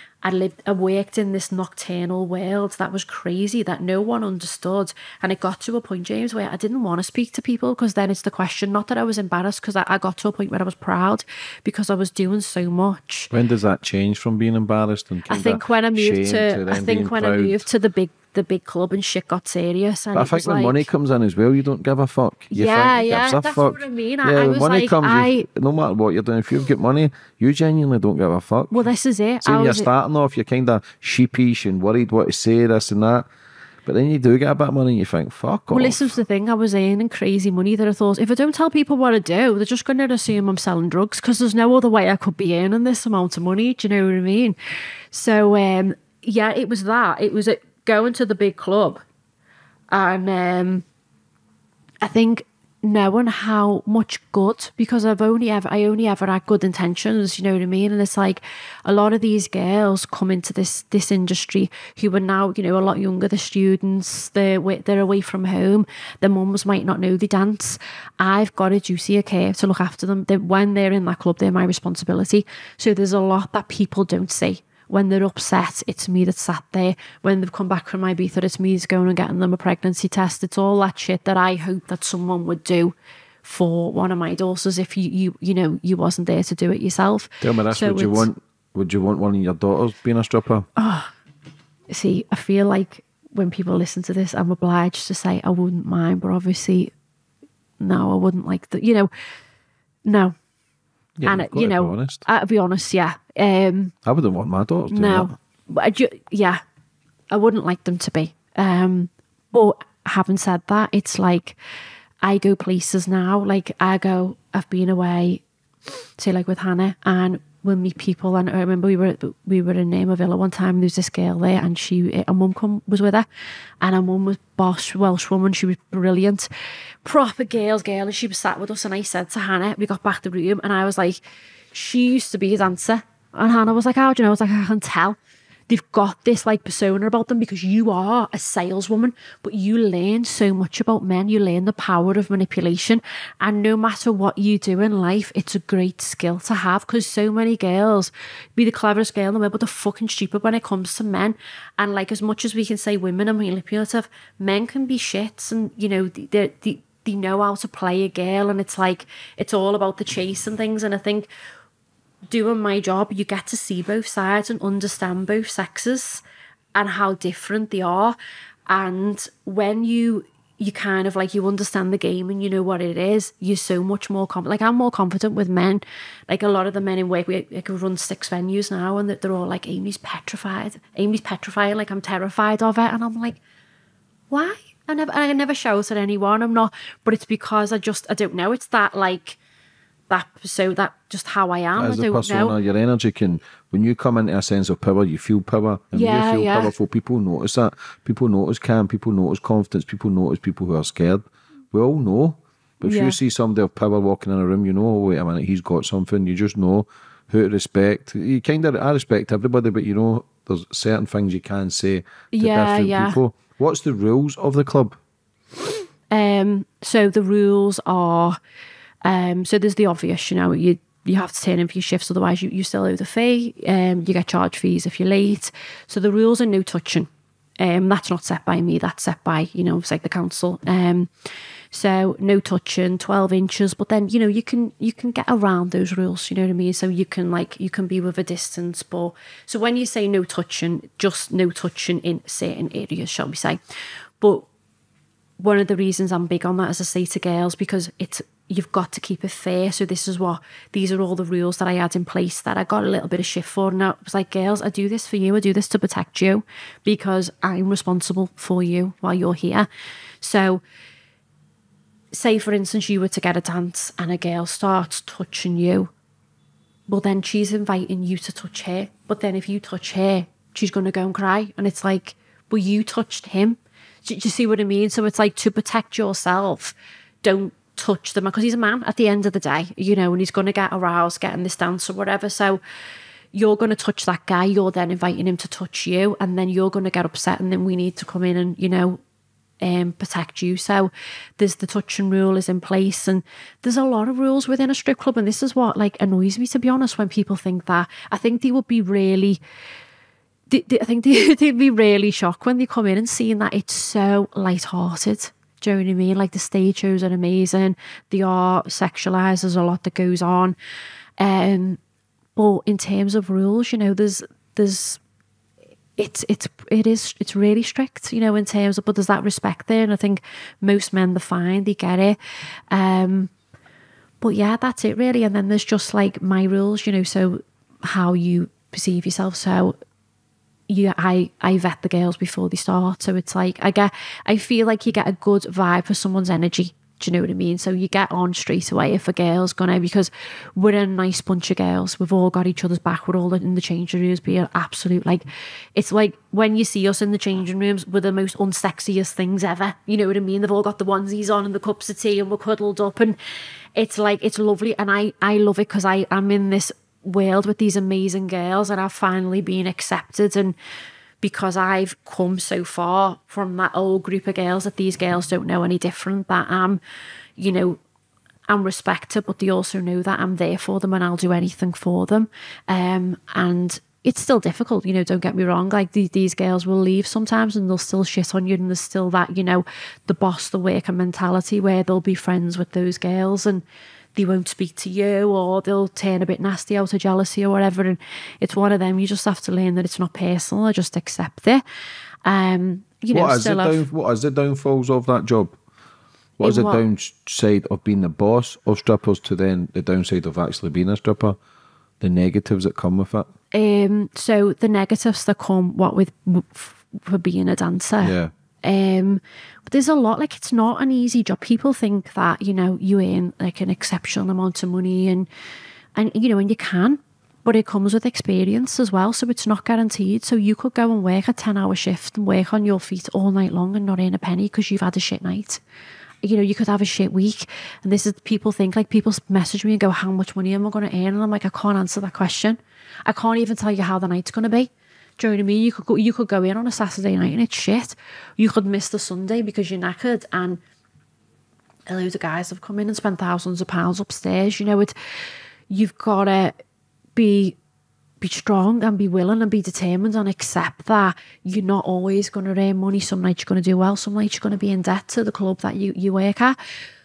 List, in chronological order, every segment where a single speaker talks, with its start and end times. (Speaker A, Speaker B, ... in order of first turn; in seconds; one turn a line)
Speaker A: 0.2-13.3
Speaker B: 13.3-17.6
Speaker A: 15.3-20.9
Speaker B: 20.1-28.8
Speaker A: 22.5-25.5
Speaker A: 28.7-29.9
Speaker B: 29.4-33.3
Speaker B: 33.9-36.1
Speaker A: 35.7-44.6
Speaker A: 45.1-49.0
Speaker A: 49.9-50.9
Speaker A: 52.0-88.3
Speaker B: 87.4-90.6
Speaker A: 90.8-91.1
Speaker A: 91.9-96.9
Speaker A: 97.8-99.1
Speaker A: 100.0-100.3
Speaker B: 101.2-102.2
Speaker A: 101.2-103.9
Speaker B: 104.0-105.3
Speaker A: 104.9-106.6
Speaker A: 107.3-111.6
Speaker A: 112.2-115.4
Speaker A: 116.2-123.3
Speaker A: 123.8-126.5
Speaker A: 127.0-131.2
Speaker A: 131.7-135.2
Speaker A: 135.7-161.3
Speaker A: 162.3-166.2
Speaker A: 166.7-168.2
Speaker A: 168.7-183.4
Speaker A: 184.3-189.4
Speaker A: 190.1-192.6
Speaker B: 191.7-215.0
Speaker A: 195.9-196.7
Speaker A: 202.8-203.2
Speaker A: 212.3-213.2
Speaker A: 216.1-218.4
Speaker A: 219.0-227.1
Speaker A: 227.6-231.1
Speaker A: 231.7-243.6
Speaker A: 244.2-244.5
Speaker A: 245.4-259.7
Speaker A: 260.2-260.6
Speaker A: 262.1-265.9
Speaker A: 266.9-282.6
Speaker A: 283.3-289.0
Speaker A: 289.6-299.4
Speaker A: 300.5-310.6
Speaker A: 311.2-311.8
Speaker A: 312.4-315.0
Speaker A: 316.0-322.2
Speaker A: 322.7-323.3
Speaker A: 324.2-329.7
Speaker A: 330.7-345.2
Speaker A: 345.8-353.1
Speaker A: 353.8-360.6
Speaker A: 361.2-366.8
Speaker A: 367.4-367.8
Speaker A: 368.5-383.6
Speaker A: 384.1-391.6
Speaker A: 392.2-393.8
Speaker B: 393.1-395.6
Speaker B: 396.4-401.4
Speaker A: 396.4-396.8
Speaker B: 402.0-403.3
Speaker A: 403.5-415.3
Speaker B: 408.0-408.3
Speaker A: 415.9-425.6
Speaker A: 426.2-440.6
Speaker A: 441.9-444.9
Speaker A: 445.7-446.5
Speaker A: 447.1-447.6
Speaker A: 448.2-456.6